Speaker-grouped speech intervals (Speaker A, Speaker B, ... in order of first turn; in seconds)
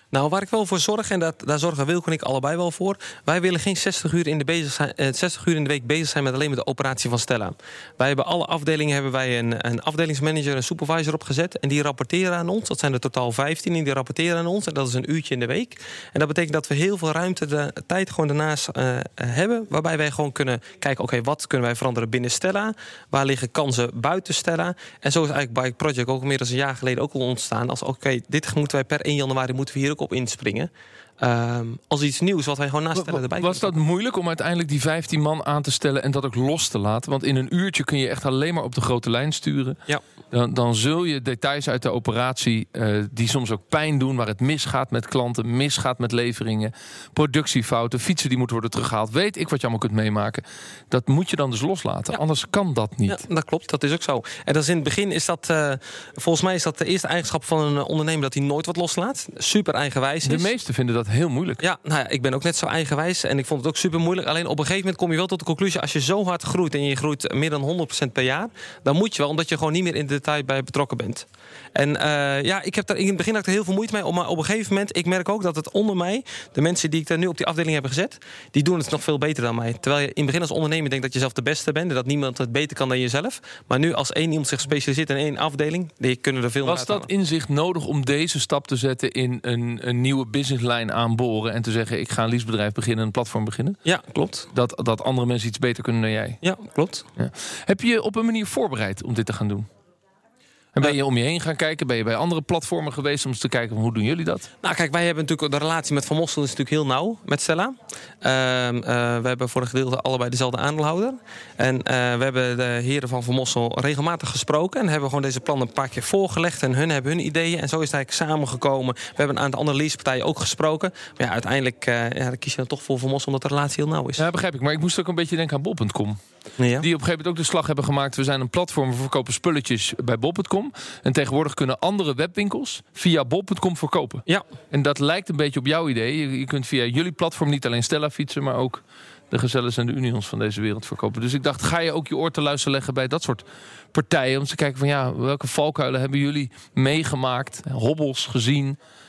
Speaker A: 0.1-33.7, 53.1-60.5, 61.6-87.1, 93.8-94.5, 96.4-97.0, 104.6-124.2, 126.6-126.9
Speaker B: 33.0-53.2, 60.3-61.6, 86.6-93.8, 94.5-96.4, 97.2-99.7, 100.8-104.5, 124.2-126.2, 126.8-148.8